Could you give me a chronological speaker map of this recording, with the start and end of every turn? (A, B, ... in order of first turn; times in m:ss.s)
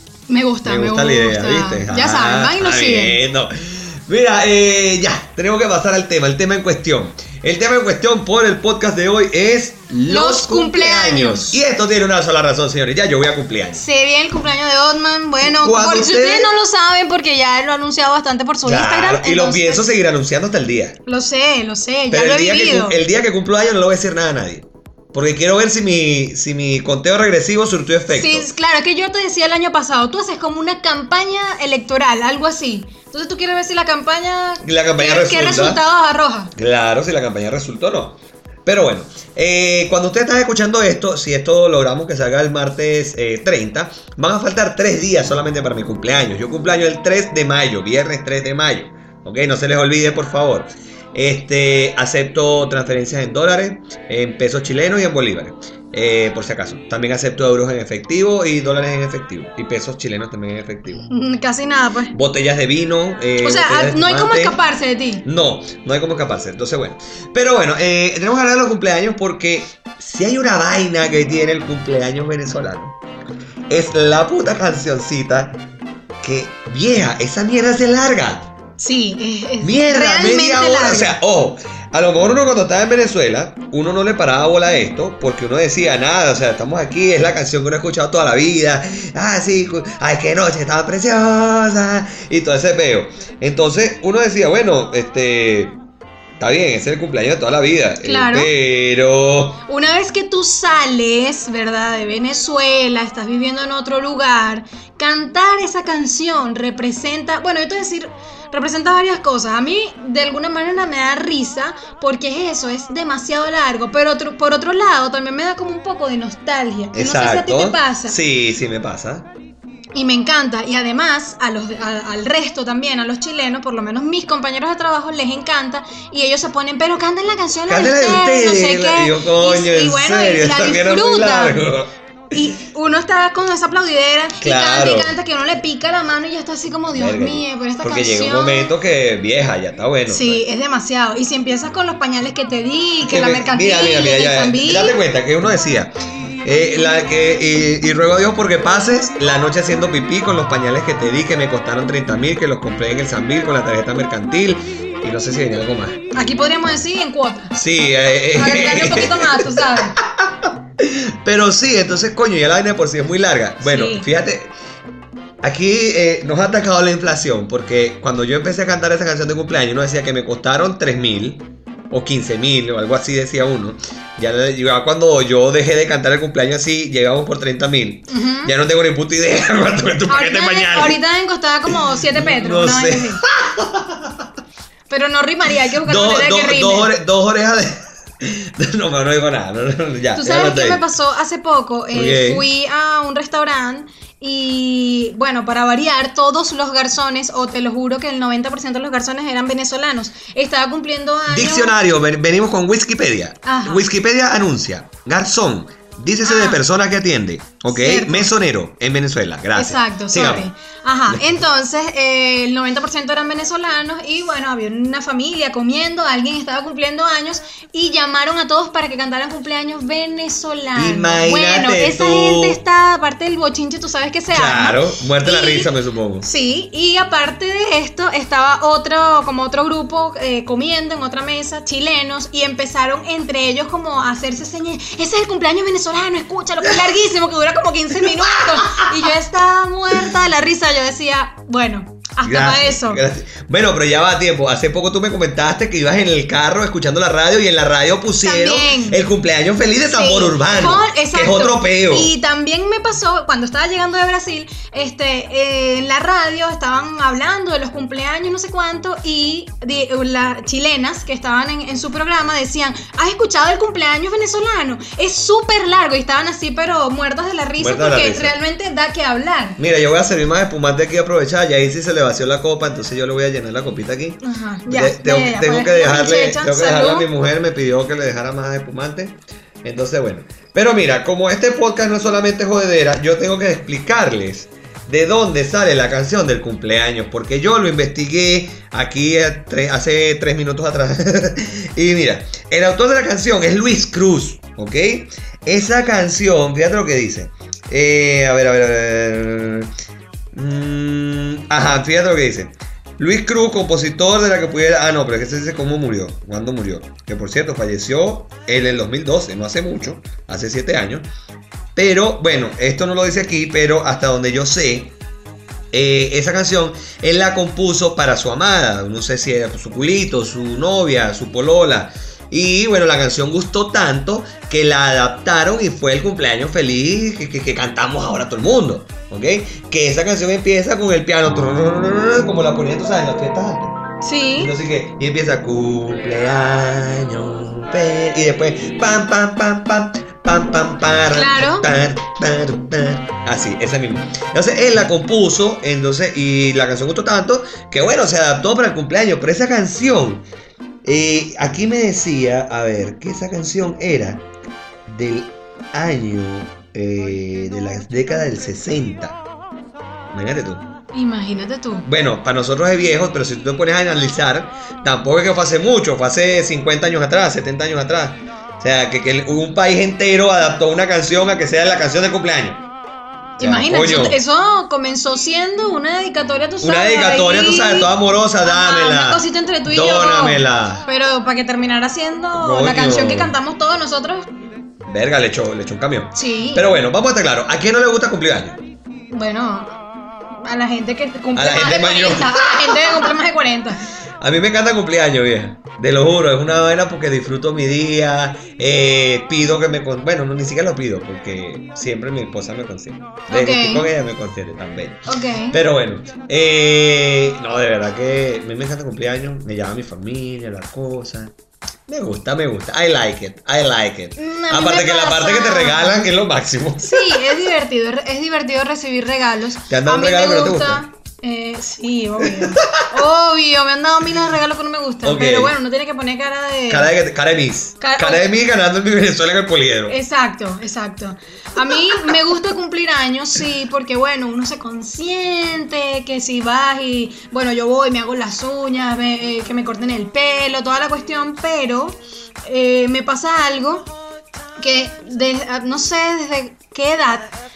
0:00.3-0:03.2 A
0:00.6-0:13.8 B
0:10.1-0:11.6 A
0:13.8-0:19.9 A
0:15.4-0:16.5 B
0:18.6-0:21.0 B
0:21.1-0:23.0 A
0:22.1-0:28.5 B
0:28.1-0:36.5 A
0:34.6-0:35.8 B
0:36.6-1:01.1 B
1:01.1-1:02.1 A
1:02.1-1:04.6 B
1:03.4-1:05.2 A
1:05.2-1:13.0 B
1:13.7-1:15.6 B
1:16.2-1:18.5 B
1:18.8-1:21.2 A
1:19.6-1:35.8 B
1:36.4-1:39.6 B
1:38.0-1:38.5 A
1:39.7-1:58.2 A
1:56.9-1:59.3 B
1:59.9-2:11.7 A
2:07.7-2:12.4 B
2:12.3-2:18.7 A
2:14.4-2:15.1 B
2:16.9-2:20.4 B
2:20.1-2:25.0 A
2:23.1-2:36.0 B
2:36.1-2:37.5 A
2:37.5-2:44.5 B
2:38.3-2:40.0 A
2:43.6-2:44.1 A
2:45.4-3:01.0 B
2:58.1-2:58.5 A
3:00.1-3:03.2 A
3:01.7-3:04.3 B
3:04.9-3:06.9 A
3:05.8-3:10.8 B
3:10.1-3:21.8 A
3:11.9-3:12.5 B
3:21.3-3:30.5 B
3:23.4-3:23.9 A
3:26.2-3:26.6 A
3:27.7-3:28.3 A
3:29.6-3:45.7 A
3:31.1-3:31.4 B
3:40.8-3:42.6 B
3:44.3-3:46.3 B
3:46.2-4:03.0 A
3:58.0-3:58.9 B
4:02.2-4:12.1 B
4:08.2-4:09.0 A
4:09.9-4:29.6 A
4:27.6-4:28.4 B
4:29.6-4:59.7 B
4:34.2-4:37.1 A
5:00.3-5:11.1 B
5:11.8-5:14.9 B
5:15.7-5:33.8 B
5:34.0-5:34.5 A
5:34.4-5:50.2 B
5:41.1-5:41.6 A
5:50.8-5:54.2 B
5:54.9-5:59.2 B
6:00.1-6:00.7 B
6:00.9-6:01.9 A
6:01.9-6:12.7 B
6:13.4-6:24.3 A
6:13.4-6:14.2 B
6:16.6-6:20.8 B
6:22.4-6:23.3 B
6:24.9-6:28.6 B
6:26.1-6:26.7 A
6:29.1-6:33.8 A
6:31.4-6:33.2 B
6:34.2-6:51.3 B
6:43.3-6:43.9 A
6:45.1-6:45.6 A
6:51.9-6:57.3 B
6:54.2-6:56.0 A
6:56.8-7:06.9 A
6:59.7-7:00.8 B
7:02.2-7:02.9 B
7:05.0-7:05.5 B
7:06.7-7:10.0 B
7:07.8-7:08.3 A
7:09.9-7:23.9 A
7:11.7-7:12.1 B
7:24.6-7:27.3 A